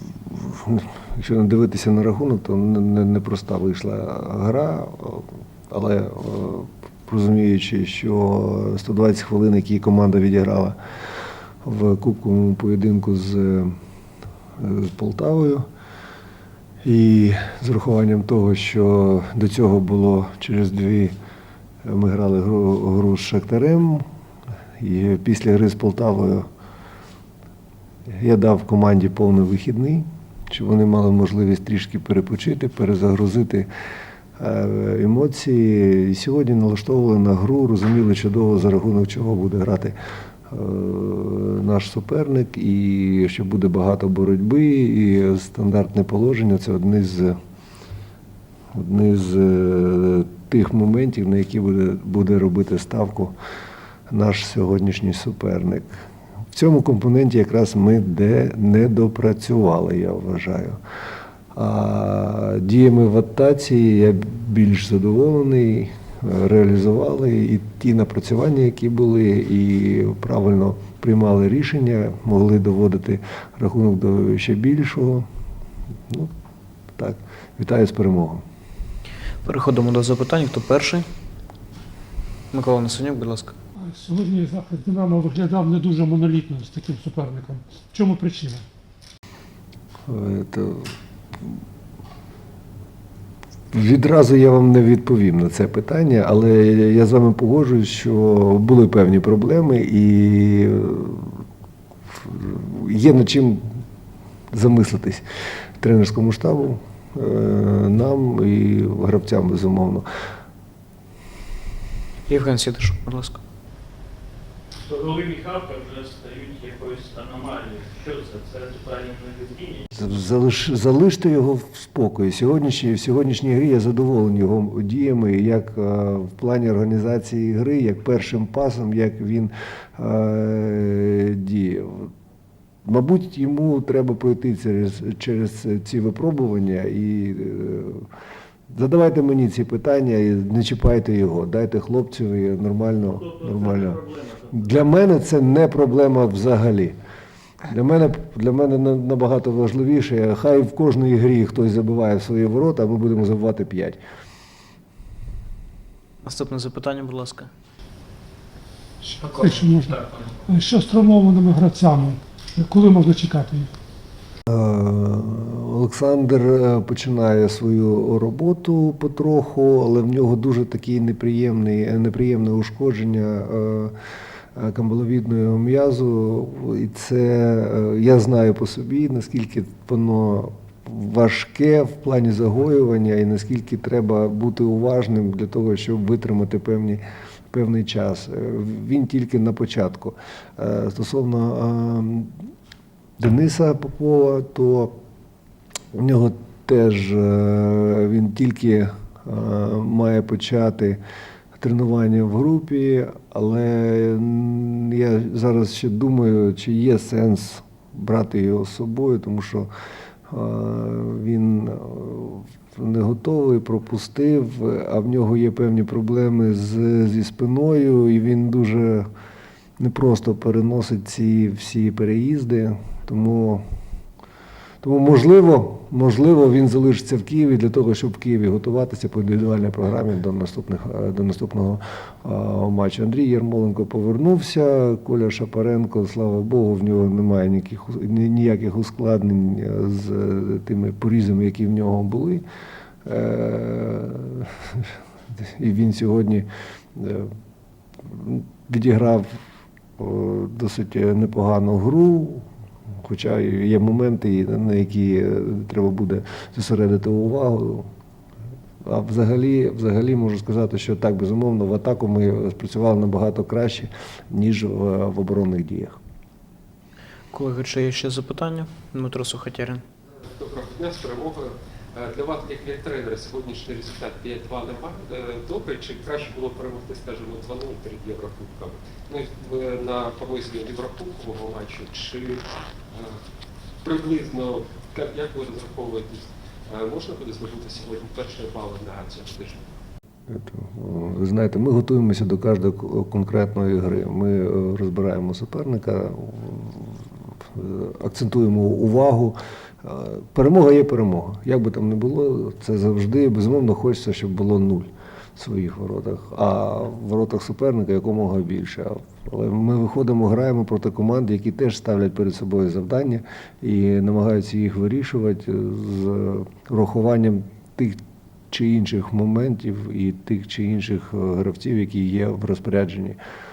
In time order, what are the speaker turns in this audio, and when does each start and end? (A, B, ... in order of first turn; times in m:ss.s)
0:00.2-0:10.8 A
0:11.6-0:13.7 A
0:14.6-0:15.6 A
0:16.8-0:21.1 A
0:21.8-0:24.0 A
0:24.8-0:26.4 A
0:28.1-0:33.7 A
0:34.4-0:39.9 A
0:40.5-0:47.4 A
0:48.7-0:53.3 A
0:54.1-0:55.9 A
0:56.5-1:00.8 A
1:01.5-1:15.2 A
1:17.0-1:18.4 A
1:19.4-1:21.0 B
1:22.5-1:23.5 B
1:23.8-1:28.6 C
1:30.1-1:30.9 A
1:33.7-1:41.4 A
1:42.1-1:43.7 A
1:44.5-1:45.2 A
1:45.8-1:50.0 A
1:52.3-1:53.4 B
1:54.8-1:59.9 D
1:59.9-2:12.1 A
2:12.8-2:18.1 A
2:18.7-2:26.9 A
2:23.2-2:24.5 D
2:27.7-2:34.0 A
2:36.2-2:37.5 B
2:39.2-2:43.7 C
2:44.5-2:53.9 A
2:54.6-3:12.3 A
3:13.2-3:14.9 A
3:15.9-3:21.0 A
3:21.6-3:29.7 A
3:30.3-3:39.0 A
3:39.8-3:43.6 A
3:44.8-4:02.4 A
4:03.0-4:07.3 A
4:08.0-4:09.4 A
4:10.0-4:12.4 A
4:13.0-4:17.9 A
4:18.8-4:26.0 A
4:27.3-4:29.8 B
4:30.2-4:43.2 E
4:43.8-4:49.6 E
4:50.3-5:18.0 A
5:18.5-5:23.2 A